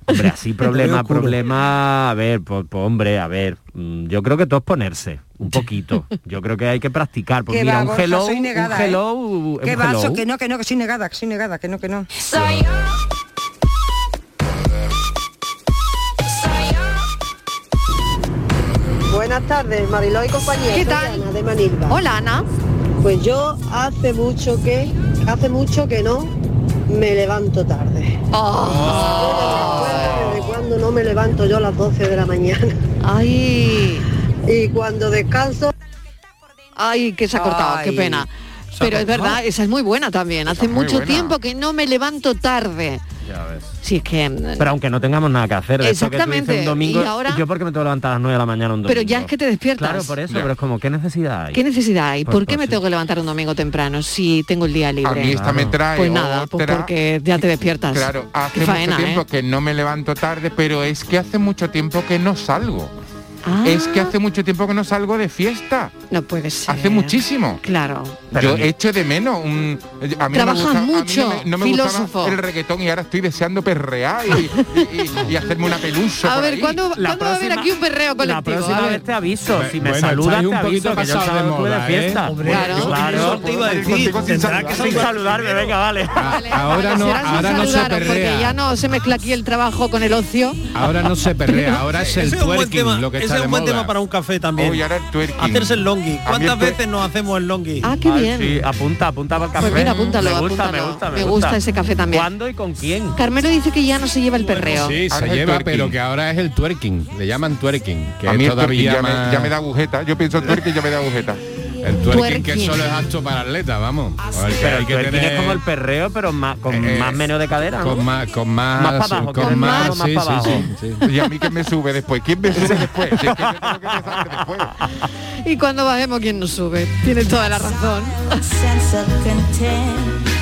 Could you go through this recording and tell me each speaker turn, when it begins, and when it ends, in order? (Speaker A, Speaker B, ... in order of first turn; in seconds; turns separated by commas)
Speaker A: 0.1-10.2, Speaker B: 0.8-1.4, Speaker C: 7.5-9.0, Speaker C: 9.6-12.1, Speaker D: 19.1-22.0, Speaker E: 20.6-21.3, Speaker E: 21.9-22.5, Speaker D: 23.0-26.3, Speaker D: 26.9-28.1, Speaker E: 28.3-30.4, Speaker B: 28.8-29.2, Speaker D: 29.1-32.7, Speaker E: 33.0-34.1, Speaker D: 34.5-35.7, Speaker E: 36.8-43.0, Speaker C: 37.3-38.2, Speaker B: 38.8-39.3, Speaker F: 40.5-41.4, Speaker A: 43.3-43.7, Speaker E: 43.8-44.7, Speaker A: 44.6-51.6, Speaker E: 45.8-47.4, Speaker E: 48.9-50.1, Speaker E: 51.5-55.4, Speaker A: 52.3-52.8, Speaker F: 55.0-56.9, Speaker A: 55.3-55.8, Speaker E: 55.9-59.2, Speaker F: 57.9-62.9, Speaker E: 63.4-64.1, Speaker F: 63.6-65.9, Speaker E: 66.1-68.2, Speaker F: 66.7-67.6, Speaker A: 68.3-68.7, Speaker F: 68.3-76.8, Speaker E: 70.3-72.4, Speaker E: 74.8-75.0, Speaker E: 76.2-79.0, Speaker A: 77.0-83.9, Speaker G: 79.6-82.2, Speaker B: 82.2-85.7, Speaker E: 82.5-82.9, Speaker F: 82.5-85.2, Speaker A: 84.6-86.4, Speaker G: 86.2-88.6, Speaker E: 86.2-90.7, Speaker G: 90.8-93.9, Speaker E: 91.5-91.8, Speaker B: 92.0-94.9, Speaker F: 94.6-96.8, Speaker B: 95.4-97.9, Speaker E: 97.8-98.6, Speaker A: 98.0-103.2, Speaker E: 99.6-102.3, Speaker E: 103.2-105.0, Speaker G: 104.7-109.5, Speaker F: 105.1-106.0, Speaker F: 108.2-111.4, Speaker G: 111.8-115.6, Speaker E: 112.1-112.9, Speaker A: 114.6-118.1, Speaker F: 116.8-117.2, Speaker G: 117.8-121.0, Speaker A: 118.8-120.7, Speaker E: 119.4-120.0, Speaker F: 121.0-124.7, Speaker A: 122.6-124.0, Speaker E: 125.5-128.3